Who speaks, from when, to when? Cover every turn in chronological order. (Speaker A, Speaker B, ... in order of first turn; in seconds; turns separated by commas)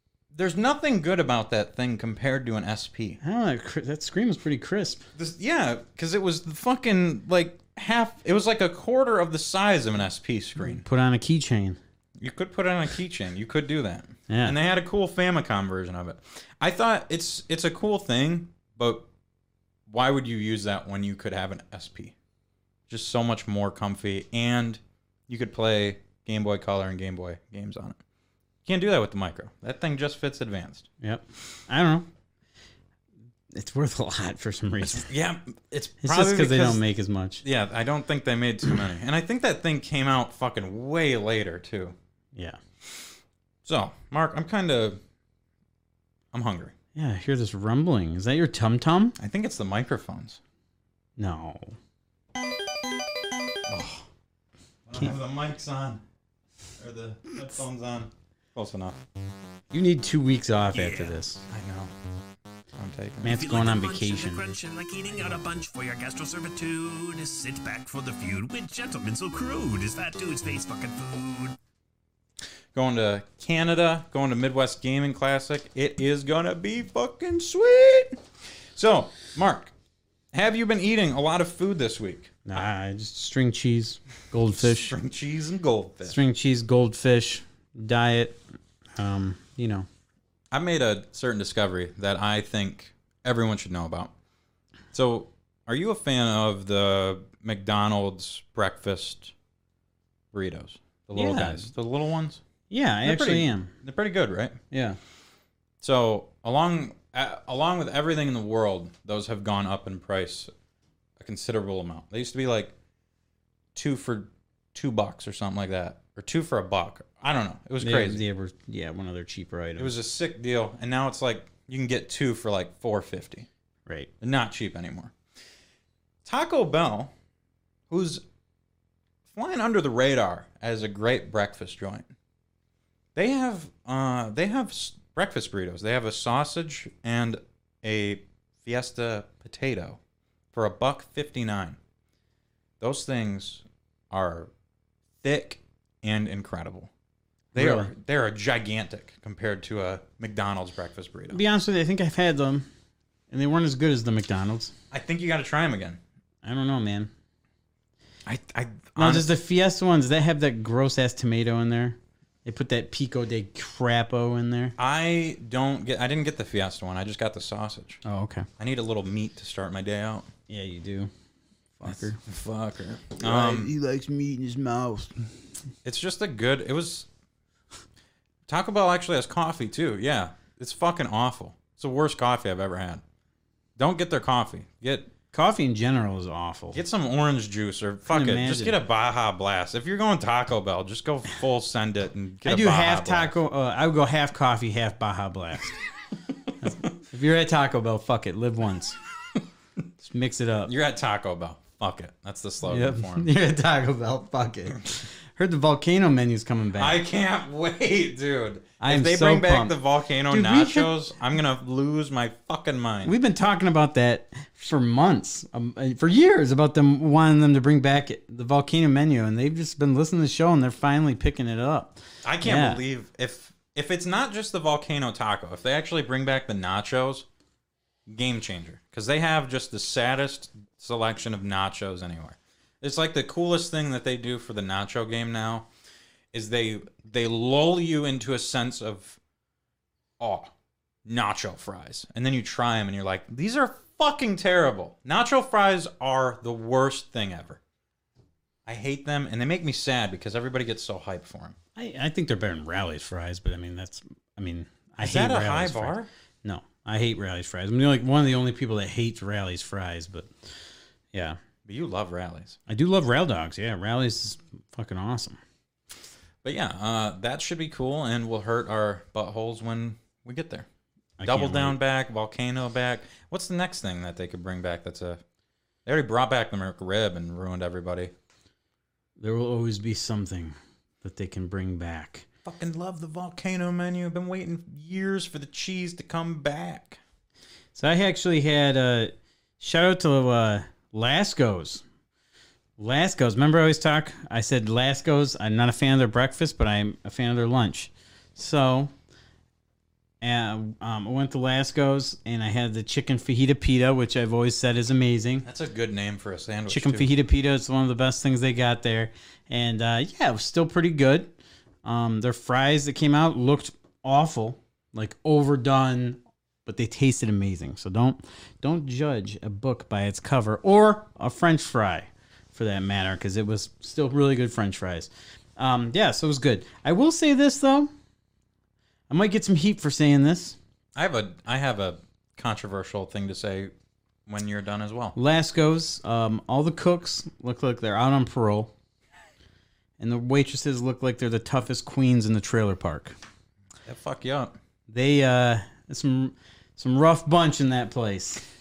Speaker A: 0.3-3.2, Speaker B: 3.2-5.0, Speaker A: 5.2-10.8, Speaker B: 10.6-11.8, Speaker A: 12.2-19.1, Speaker B: 14.3-14.5, Speaker A: 19.9-22.1, Speaker A: 22.9-28.0, Speaker A: 28.6-30.9, Speaker B: 31.0-32.1, Speaker B: 33.5-35.1, Speaker A: 34.8-36.8, Speaker B: 36.0-37.4, Speaker A: 37.4-41.9, Speaker B: 42.3-42.6, Speaker A: 43.6-45.0, Speaker A: 46.3-46.7, Speaker B: 46.9-49.2, Speaker A: 49.2-50.4, Speaker B: 51.2-51.8, Speaker A: 53.7-54.1, Speaker A: 54.9-56.0, Speaker A: 56.8-59.0, Speaker B: 59.7-61.4, Speaker C: 60.7-61.2, Speaker A: 61.5-61.9, Speaker A: 62.8-63.4, Speaker B: 63.2-64.4, Speaker C: 63.3-71.5, Speaker A: 72.7-78.2, Speaker A: 78.7-79.7, Speaker A: 80.3-82.4, Speaker B: 82.5-84.9, Speaker A: 84.5-86.2, Speaker B: 86.0-88.4, Speaker B: 89.0-89.8, Speaker A: 90.5-94.1, Speaker A: 94.9-99.3, Speaker A: 100.3-102.4, Speaker B: 101.1-101.7, Speaker B: 102.7-103.7, Speaker A: 103.0-104.6, Speaker B: 104.7-105.0, Speaker A: 105.8-110.5, Speaker A: 111.2-112.7, Speaker A: 113.7-118.2, Speaker B: 117.8-119.9, Speaker A: 119.8-123.5, Speaker A: 124.2-125.1, Speaker A: 126.2-127.1, Speaker A: 127.9-128.2, Speaker A: 129.3-132.1, Speaker A: 133.1-140.0, Speaker A: 140.5-141.8, Speaker A: 142.8-144.5, Speaker A: 145.2-146.9, Speaker A: 147.5-151.4, Speaker B: 147.5-147.9, Speaker B: 151.3-152.7, Speaker B: 153.3-154.7, Speaker A: 154.9-156.0, Speaker B: 156.4-157.1, Speaker A: 158.2-159.3, Speaker B: 158.9-164.7, Speaker A: 164.8-168.0, Speaker B: 168.0-168.5, Speaker A: 168.6-170.3, Speaker B: 170.5-171.1, Speaker B: 171.8-172.2, Speaker A: 171.8-173.7, Speaker B: 173.2-175.1, Speaker A: 175.8-177.1, Speaker A: 178.5-183.0, Speaker A: 183.8-185.1, Speaker B: 185.3-186.8, Speaker A: 186.7-193.3, Speaker B: 188.1-188.8, Speaker B: 192.4-195.8, Speaker B: 196.6-198.9, Speaker B: 200.0-200.7, Speaker A: 200.6-203.3, Speaker B: 202.6-207.0, Speaker A: 206.8-213.1, Speaker B: 208.8-209.8, Speaker B: 210.3-210.9, Speaker B: 213.0-222.8, Speaker A: 222.2-227.3, Speaker A: 228.1-235.7, Speaker A: 236.3-239.2, Speaker A: 240.2-240.5, Speaker A: 241.0-247.6, Speaker A: 248.7-251.6, Speaker B: 251.8-260.3, Speaker A: 255.0-256.1, Speaker B: 261.1-261.4, Speaker A: 261.6-262.6, Speaker B: 262.7-265.4, Speaker A: 266.4-270.7, Speaker B: 271.2-271.8, Speaker A: 271.2-275.2, Speaker A: 275.9-278.1, Speaker B: 279.2-282.2, Speaker A: 282.4-287.0, Speaker B: 287.7-291.8, Speaker B: 292.8-298.9, Speaker B: 300.2-305.4, Speaker A: 305.4-307.1, Speaker B: 306.7-327.9, Speaker B: 329.1-330.6, Speaker A: 330.9-333.7, Speaker A: 334.3-335.1, Speaker B: 335.1-338.7, Speaker B: 340.0-343.1, Speaker A: 343.8-344.5, Speaker B: 344.9-348.4